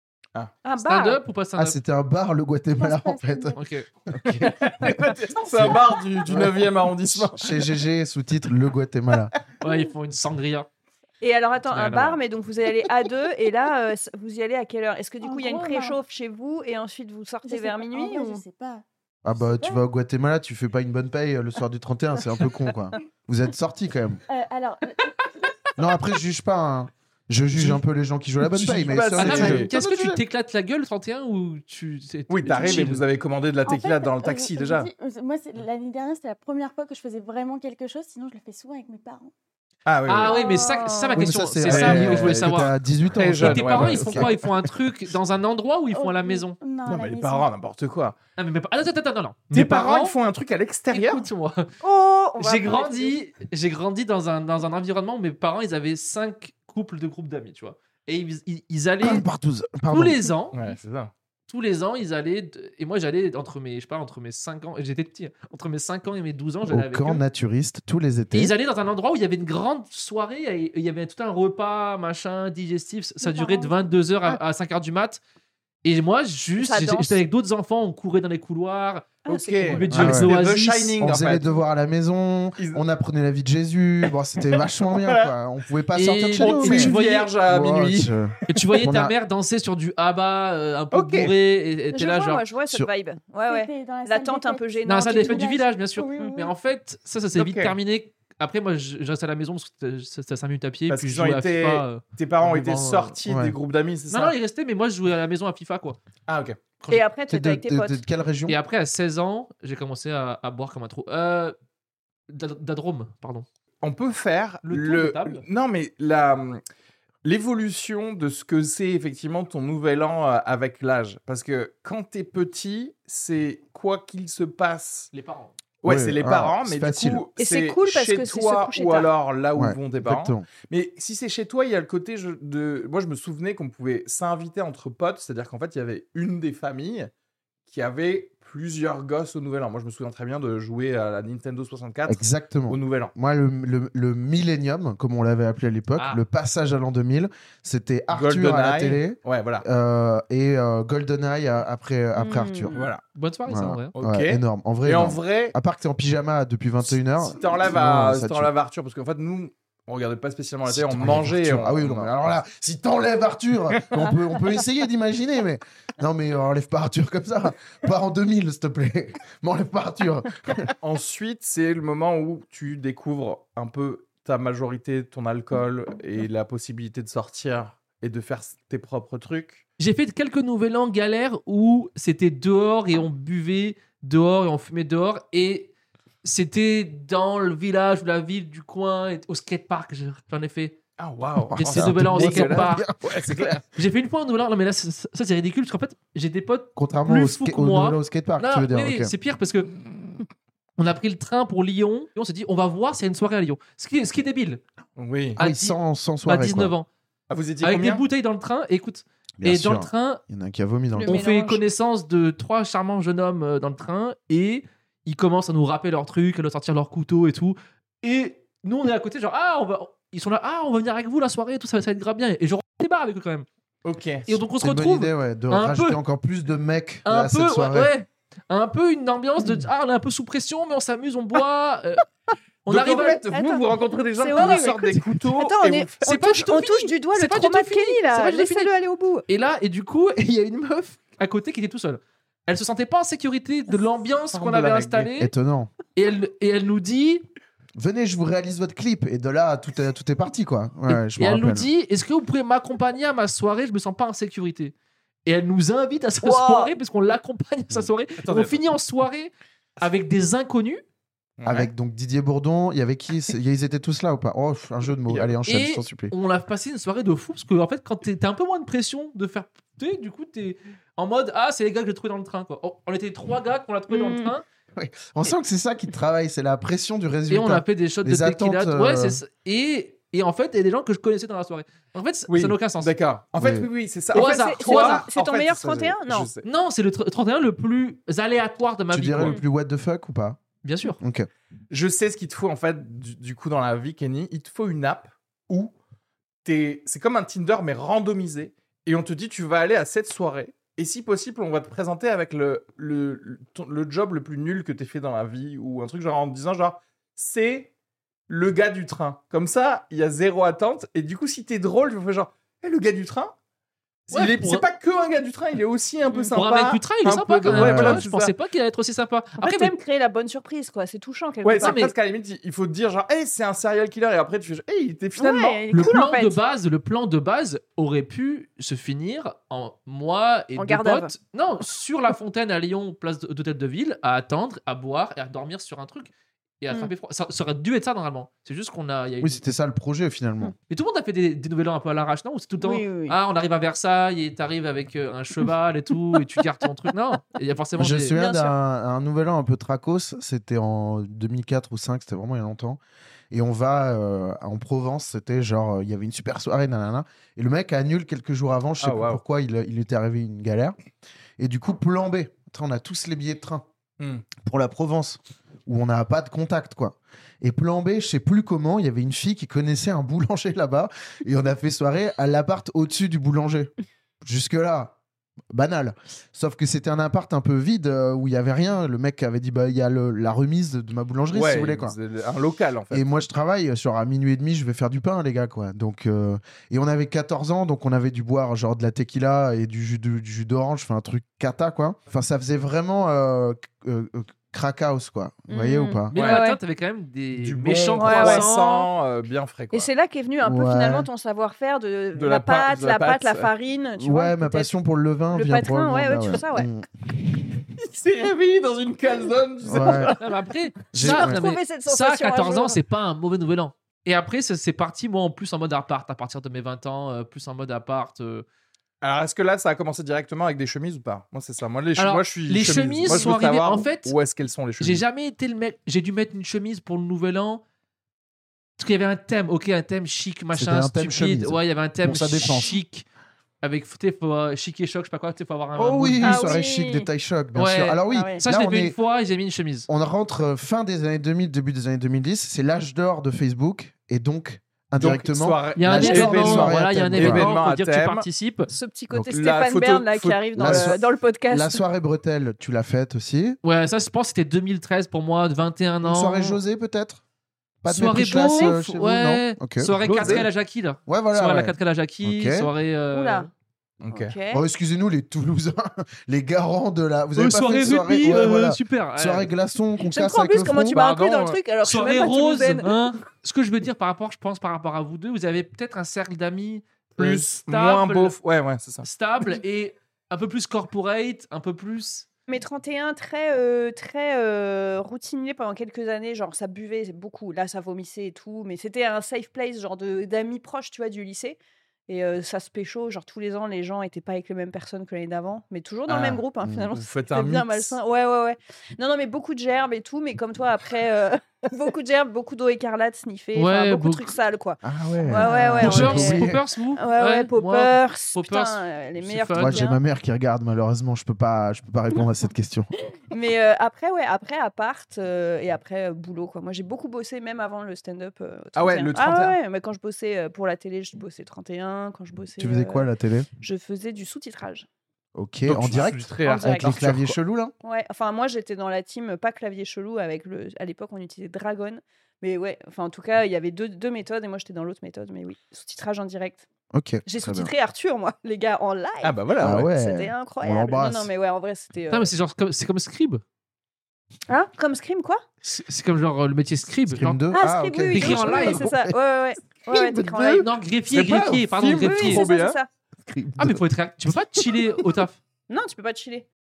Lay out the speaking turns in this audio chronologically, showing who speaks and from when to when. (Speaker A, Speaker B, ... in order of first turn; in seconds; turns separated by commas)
Speaker A: 0.6-1.2, Speaker B: 0.8-1.8, Speaker C: 1.6-3.6, Speaker D: 2.8-3.6, Speaker B: 3.6-3.9, Speaker C: 4.1-5.0, Speaker E: 4.3-7.7, Speaker C: 5.5-9.3, Speaker B: 9.6-10.7, Speaker A: 11.2-18.4, Speaker B: 11.7-12.2, Speaker D: 15.2-16.0, Speaker D: 17.4-18.8, Speaker C: 19.2-24.2, Speaker D: 19.4-19.8, Speaker D: 24.3-25.3, Speaker C: 25.8-30.2, Speaker E: 28.4-29.7, Speaker B: 29.2-33.0, Speaker E: 32.3-34.9, Speaker D: 33.6-39.3, Speaker E: 39.9-40.4, Speaker B: 40.1-42.7, Speaker A: 40.3-41.3, Speaker C: 41.1-44.4, Speaker E: 41.6-44.5, Speaker B: 43.4-46.6, Speaker D: 45.9-47.5, Speaker E: 46.9-48.2, Speaker B: 48.4-50.2, Speaker E: 49.5-51.3, Speaker B: 50.9-51.7, Speaker A: 51.8-53.2, Speaker B: 52.4-59.3, Speaker C: 59.0-60.2, Speaker B: 59.9-60.7, Speaker E: 60.5-61.1, Speaker B: 61.5-67.2, Speaker C: 66.7-68.5, Speaker B: 68.3-75.2, Speaker D: 73.2-74.0, Speaker B: 75.8-81.0, Speaker A: 76.6-77.2, Speaker A: 79.3-79.8, Speaker E: 79.3-81.5, Speaker C: 79.9-80.4, Speaker C: 81.0-87.0, Speaker E: 82.6-82.8, Speaker E: 84.5-85.3, Speaker B: 85.9-87.3, Speaker E: 86.3-88.6, Speaker C: 87.5-89.2, Speaker B: 88.5-92.4, Speaker E: 90.9-91.3, Speaker A: 91.9-95.5, Speaker D: 93.5-96.5, Speaker B: 94.9-103.2, Speaker A: 96.2-96.5, Speaker E: 97.3-97.8, Speaker E: 100.9-104.3, Speaker C: 103.3-103.5, Speaker B: 104.1-106.0, Speaker E: 106.3-106.6, Speaker A: 106.9-108.0, Speaker C: 107.3-108.6, Speaker B: 108.5-111.5, Speaker B: 112.3-113.5, Speaker E: 113.8-116.6, Speaker B: 114.7-115.4, Speaker E: 117.2-125.1, Speaker B: 125.1-125.5, Speaker E: 125.8-137.1, Speaker C: 125.8-127.3, Speaker A: 127.4-129.1, Speaker C: 129.6-130.5, Speaker E: 137.7-143.1, Speaker C: 142.1-152.8, Speaker B: 146.0-146.2, Speaker E: 148.1-149.7, Speaker A: 152.2-152.9, Speaker E: 152.7-153.0, Speaker B: 153.1-153.9, Speaker C: 153.5-158.5, Speaker E: 153.9-155.6, Speaker E: 156.8-162.1, Speaker C: 160.7-170.7, Speaker E: 170.8-179.6, Speaker B: 179.8-185.7, Speaker B: 186.2-190.8, Speaker E: 191.0-193.6, Speaker C: 191.5-193.5, Speaker B: 191.6-192.9, Speaker B: 193.7-199.7, Speaker C: 196.8-199.1, Speaker B: 200.8-204.6, Speaker E: 205.0-205.4, Speaker B: 205.4-206.9, Speaker C: 205.4-206.7, Speaker E: 207.3-208.0, Speaker B: 207.6-210.2, Speaker C: 209.4-211.2, Speaker A: 210.9-211.6, Speaker B: 211.1-223.5, Speaker E: 223.8-224.3, Speaker B: 224.3-226.0, Speaker C: 224.6-227.9, Speaker B: 227.1-232.1, Speaker B: 232.7-233.2, Speaker E: 232.7-236.3, Speaker A: 233.3-233.7, Speaker A: 234.2-239.2, Speaker B: 234.3-234.7, Speaker B: 236.0-238.7, Speaker B: 239.3-240.3, Speaker C: 240.2-241.0, Speaker B: 241.2-245.3, Speaker E: 244.3-245.1, Speaker C: 245.2-245.7, Speaker B: 245.9-247.2, Speaker C: 247.8-251.7, Speaker B: 250.9-254.7, Speaker B: 255.3-260.8, Speaker E: 256.2-256.7, Speaker E: 258.2-258.6, Speaker E: 261.4-261.7, Speaker C: 261.4-266.1, Speaker E: 265.1-265.3, Speaker B: 265.5-274.4, Speaker A: 273.9-274.3, Speaker C: 274.8-279.2, Speaker B: 277.3-282.9, Speaker E: 282.3-286.5, Speaker C: 283.4-283.7, Speaker A: 284.1-286.3, Speaker B: 284.1-285.1, Speaker B: 286.4-289.4, Speaker C: 288.9-290.4, Speaker B: 290.6-291.0, Speaker C: 291.0-291.3, Speaker E: 291.7-295.7, Speaker E: 296.4-307.7, Speaker E: 308.3-313.4, Speaker E: 314.1-318.3, Speaker B: 314.1-314.6, Speaker B: 316.3-319.7, Speaker C: 317.5-318.0, Speaker A: 319.4-321.8, Speaker E: 321.4-325.6, Speaker B: 321.6-321.9, Speaker A: 325.2-326.4, Speaker B: 325.7-339.4, Speaker A: 330.6-331.1, Speaker C: 339.2-340.5, Speaker B: 340.7-348.1, Speaker A: 342.6-343.2, Speaker C: 347.8-352.8, Speaker A: 348.1-348.6, Speaker C: 353.3-360.8, Speaker E: 358.8-359.2, Speaker C: 361.4-363.7, Speaker E: 364.0-364.3, Speaker C: 364.4-373.7, Speaker C: 374.2-375.0, Speaker C: 375.5-382.0, Speaker E: 381.3-383.0, Speaker C: 382.9-396.2, Speaker A: 395.5-396.6, Speaker B: 396.1-398.9, Speaker E: 397.4-399.9, Speaker A: 398.0-398.5, Speaker A: 399.7-404.7, Speaker C: 400.4-401.1, Speaker E: 402.1-403.5, Speaker C: 404.0-406.9, Speaker A: 405.3-406.7, Speaker E: 407.6-410.4, Speaker C: 409.7-410.1, Speaker B: 410.2-418.4, Speaker C: 410.9-411.4, Speaker A: 411.0-412.8, Speaker E: 419.0-425.0, Speaker B: 422.0-424.1, Speaker B: 424.8-427.6, Speaker B: 428.8-433.0, Speaker C: 430.6-432.8, Speaker B: 433.6-436.6, Speaker C: 435.8-439.0, Speaker A: 436.2-437.1, Speaker B: 437.6-439.9, Speaker A: 438.1-438.4, Speaker C: 439.9-447.5, Speaker E: 444.9-448.3, Speaker B: 445.8-448.7, Speaker A: 448.7-451.8, Speaker E: 449.3-451.0, Speaker C: 450.6-453.6, Speaker B: 453.6-456.6, Speaker C: 456.0-457.2, Speaker C: 457.8-460.5, Speaker B: 457.9-463.5, Speaker A: 458.5-458.8, Speaker E: 460.0-460.5, Speaker C: 461.1-462.7, Speaker A: 463.1-463.5, Speaker E: 464.0-464.4, Speaker A: 464.1-464.6, Speaker C: 464.5-471.0, Speaker B: 467.4-469.5, Speaker A: 470.0-472.9, Speaker E: 470.9-471.6, Speaker B: 471.8-478.4, Speaker E: 477.2-479.1, Speaker B: 479.0-482.3, Speaker A: 482.5-510.0, Speaker E: 496.1-498.0, Speaker C: 496.6-496.9, Speaker B: 503.6-504.3, Speaker C: 504.8-506.6, Speaker B: 505.4-509.9, Speaker C: 509.6-512.9, Speaker A: 513.3-523.1, Speaker E: 518.8-519.6, Speaker C: 522.6-523.5, Speaker A: 523.6-524.9, Speaker C: 525.4-527.7, Speaker E: 525.7-527.4, Speaker A: 526.5-526.9, Speaker A: 527.8-536.7, Speaker C: 536.9-537.7, Speaker A: 537.3-542.3, Speaker E: 539.2-539.9, Speaker C: 539.6-541.3, Speaker B: 542.1-543.4, Speaker A: 544.5-545.4, Speaker B: 545.6-547.5, Speaker C: 547.1-549.1, Speaker A: 547.5-550.7, Speaker B: 548.1-548.9, Speaker C: 549.9-550.3, Speaker B: 550.4-552.5, Speaker E: 551.1-552.8, Speaker A: 551.9-552.9, Speaker C: 553.2-553.9, Speaker B: 553.6-555.4, Speaker A: 555.7-556.5